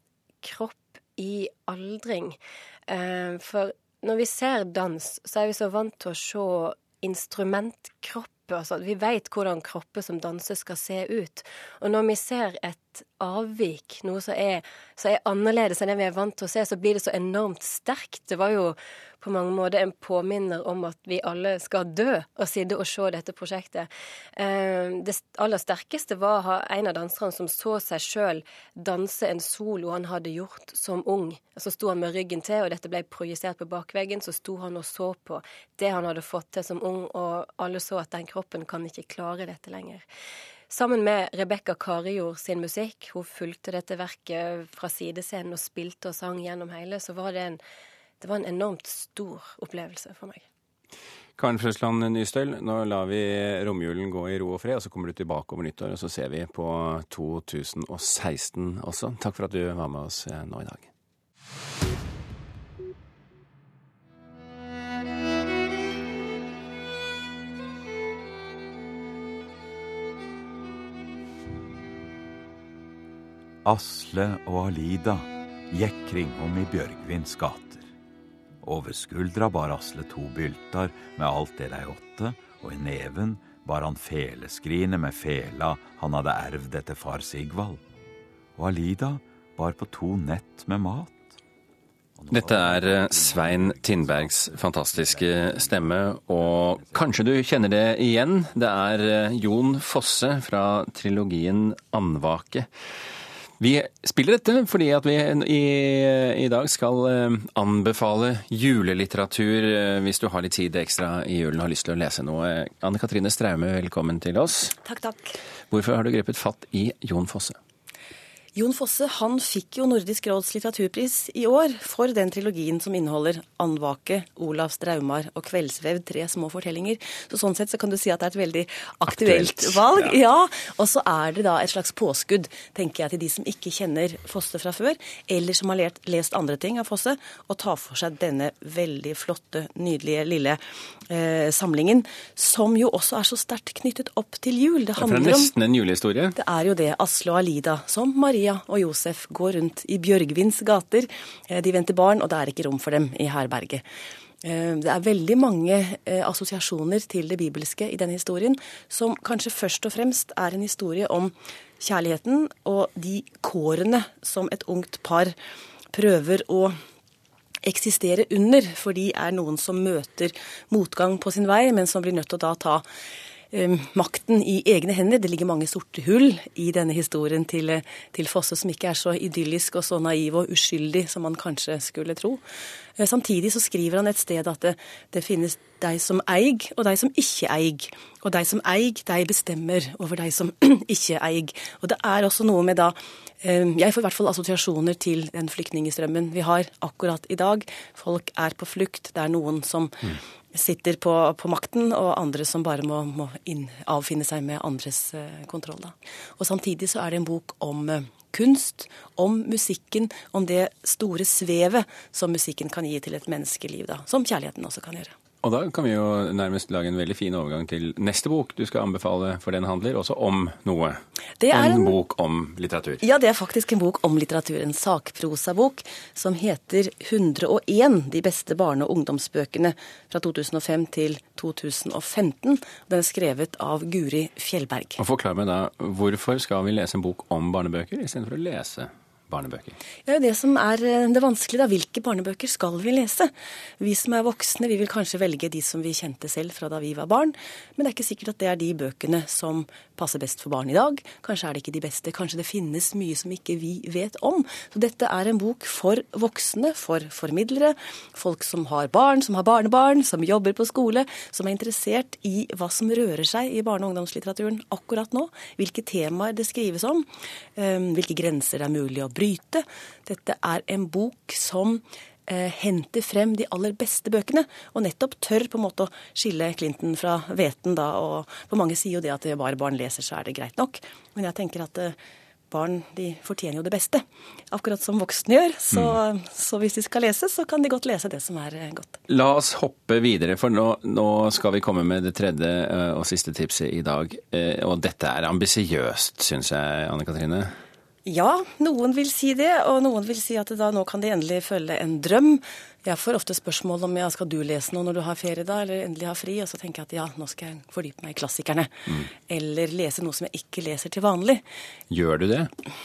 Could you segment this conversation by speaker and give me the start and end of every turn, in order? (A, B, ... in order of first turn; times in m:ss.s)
0:00.4-0:40.0 A
0:40.7-0:47.6 A
0:48.2-0:50.4 A
0:51.4-1:00.9 B
1:13.6-1:17.9 C
1:18.6-1:27.8 C
1:28.6-1:31.4 C
1:32.1-1:37.3 C
1:32.3-1:42.7 B
1:43.6-1:54.8 B
1:54.8-1:55.4 D
1:55.7-1:57.6 B
1:58.5-2:25.5 D
2:09.1-2:10.2 B
2:25.0-2:26.4 B
2:26.4-2:33.8 D
2:34.4-2:45.3 D
2:45.9-2:46.8 D
2:47.6-2:52.8 D
2:53.5-3:02.4 D
3:03.0-3:35.1 D
3:35.4-3:41.0 B
3:41.4-3:42.0 D
3:41.5-3:43.0 B
3:43.0-3:55.0 D
3:55.0-3:59.8 B
4:00.0-4:42.0 D
4:42.5-4:49.0 D
4:45.7-4:46.0 B
4:49.1-4:57.6 B
4:58.0-5:11.4 D
5:11.9-5:12.5 B